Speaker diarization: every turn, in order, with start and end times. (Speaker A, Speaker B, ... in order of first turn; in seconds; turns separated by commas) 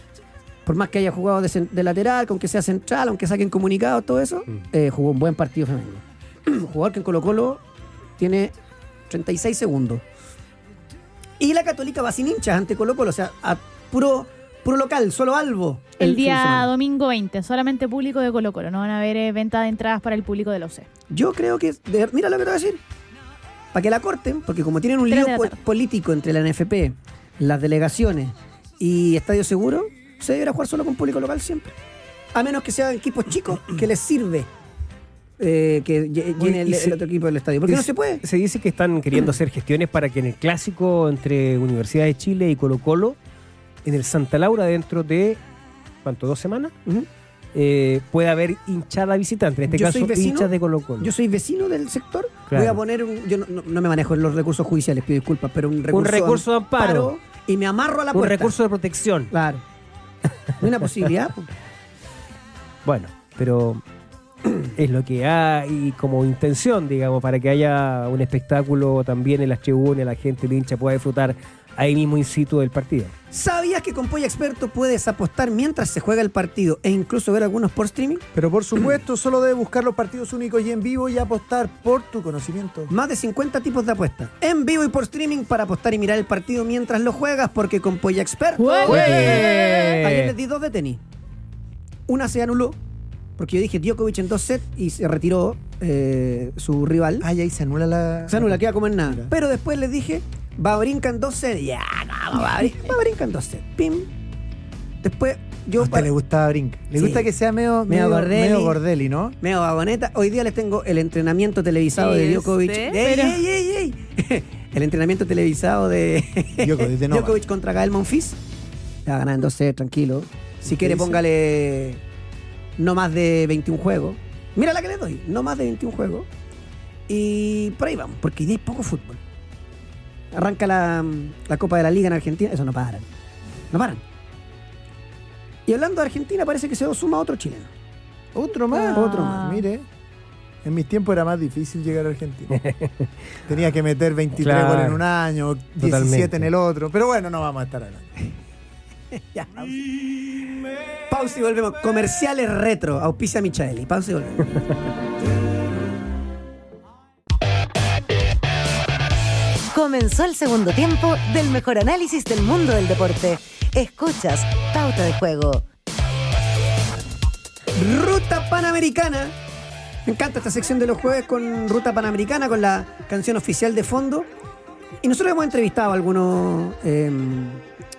Speaker A: 0.7-7.6, Speaker A: 8.2-8.5, Speaker A: 9.1-10.0, Speaker A: 11.4-16.7, Speaker B: 16.0-20.9, Speaker A: 21.1-22.8, Speaker A: 23.7-31.8, Speaker B: 25.1-25.6, Speaker A: 32.3-34.5, Speaker A: 35.4-38.2, Speaker C: 36.4-37.0, Speaker C: 37.7-43.2, Speaker C: 43.9-45.4, Speaker C: 46.0-46.7, Speaker C: 47.5-51.1, Speaker A: 49.7-58.5, Speaker C: 52.5-52.8, Speaker C: 55.9-57.1, Speaker C: 58.1-59.3, Speaker A: 59.3-59.6, Speaker A: 60.6-61.5, Speaker C: 62.9-63.8, Speaker C: 64.6-73.2, Speaker A: 73.3-78.2, Speaker D: 78.3-82.9, Speaker A: 82.9-91.0, Speaker B: 88.6-90.0, Speaker C: 88.8-90.3, Speaker A: 92.1-92.8, Speaker A: 93.4-97.3, Speaker D: 97.2-99.3, Speaker A: 98.3-104.1, Speaker A: 105.0-106.1, Speaker D: 105.8-109.4, Speaker A: 107.0-107.3, Speaker A: 107.9-108.8, Speaker A: 109.4-118.4, Speaker B: 112.8-113.4, Speaker D: 116.6-117.4, Speaker A: 119.1-122.0, Speaker D: 120.7-121.2, Speaker A: 122.8-126.3, Speaker A: 127.1-129.2, Speaker A: 130.3-133.1, Speaker A: 133.7-134.0, Speaker A: 135.7-137.7, Speaker D: 138.3-139.9, Speaker B: 138.7-139.6, Speaker A: 138.9-139.4, Speaker D: 140.6-142.6, Speaker C: 142.5-143.1, Speaker D: 143.5-148.4, Speaker C: 144.4-145.0, Speaker C: 145.8-146.5, Speaker A: 149.2-149.9, Speaker A: 151.1-154.6, Speaker E: 159.7-165.7, Speaker A: 167.8-169.3, Speaker A: 170.1-174.3, Speaker A: 175.0-177.6